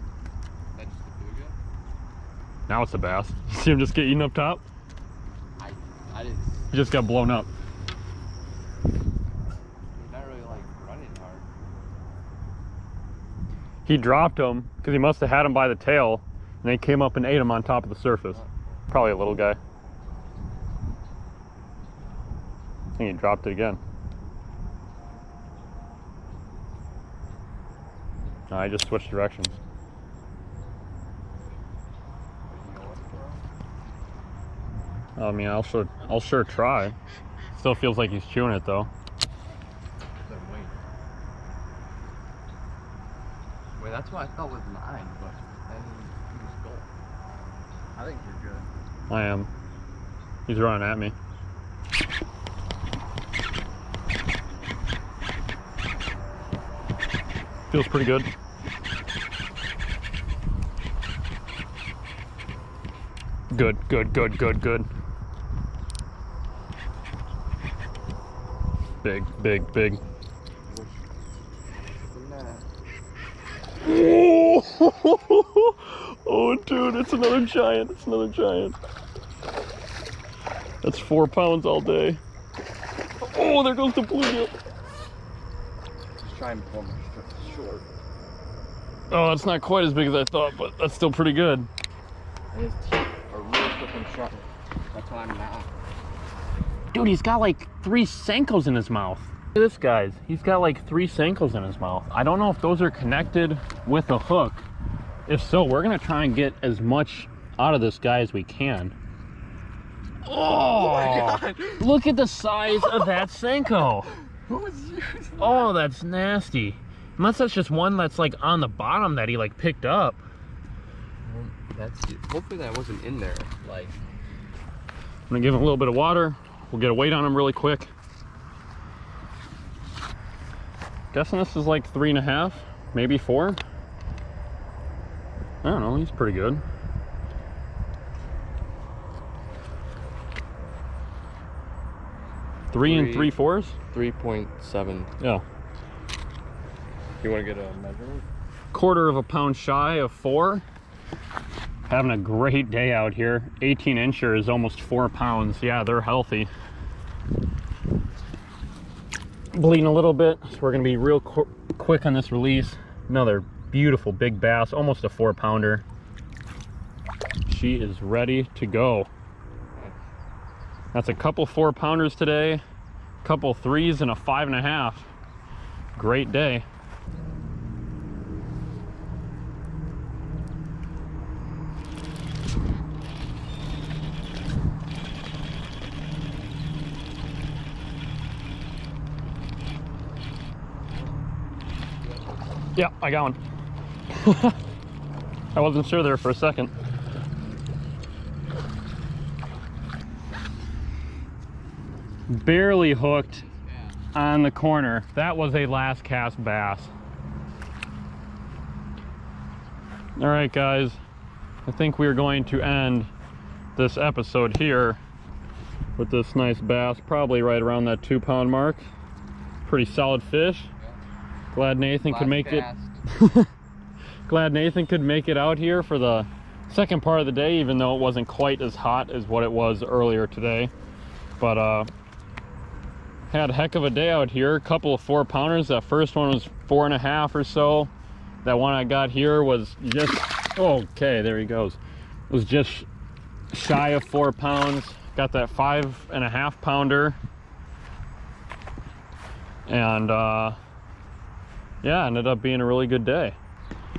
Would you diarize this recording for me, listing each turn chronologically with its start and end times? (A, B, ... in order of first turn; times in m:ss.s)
0:00.8-0:01.6 A
0:02.7-0:04.6 B
0:05.6-0:06.7 A
0:06.7-0:07.5 B
0:09.9-0:11.5 A
0:13.9-0:19.6 B
0:23.0-0:23.8 B
0:28.5-0:29.6 B
0:32.5-0:33.4 A
0:35.2-0:37.0 B
0:37.6-0:38.9 B
0:40.2-0:40.8 A
0:43.8-0:46.9 A
0:48.0-0:48.7 A
0:49.1-0:49.5 B
0:50.5-0:51.2 B
0:57.7-0:58.3 B
1:03.5-1:04.9 B
1:09.0-1:10.0 B
1:10.7-1:11.0 A
1:12.0-1:12.7 A
1:13.8-1:18.8 B
1:20.8-1:22.2 B
1:23.2-1:24.5 B
1:26.2-1:27.8 A
1:29.1-1:31.7 B
1:32.5-1:35.7 A
1:36.9-1:44.7 B
1:45.3-1:48.9 B
1:50.3-1:54.1 B
1:50.5-1:51.8 A
1:54.5-1:55.7 A
1:55.4-2:00.2 B
2:01.2-2:04.0 A
2:05.3-2:07.9 B
2:11.1-2:13.6 B
2:15.6-2:16.6 B
2:22.7-2:23.8 B
2:22.8-2:25.1 A
2:27.2-2:28.2 A
2:28.7-2:30.6 B
2:31.9-2:36.5 B
2:39.5-2:45.8 B
2:47.5-2:49.1 B
2:50.9-2:52.6 B
2:53.2-2:55.1 B
2:56.0-2:56.6 B
3:12.8-3:13.4 B
3:14.1-3:14.6 B
3:15.6-3:16.7 B
3:22.3-3:23.4 B
3:23.1-3:24.0 A
3:24.1-3:26.9 B
3:30.2-3:31.0 B
3:31.7-3:33.1 B
3:33.8-3:35.0 B
3:36.0-3:38.9 B
3:39.7-3:40.7 B
3:41.5-3:43.5 B
3:42.0-3:43.0 A
3:44.3-3:50.7 B
3:51.4-3:51.9 B
3:53.3-3:57.9 B
3:58.4-4:01.8 B
4:02.3-4:02.9 B
4:03.5-4:07.2 B
4:09.7-4:10.6 B
4:11.8-4:13.4 B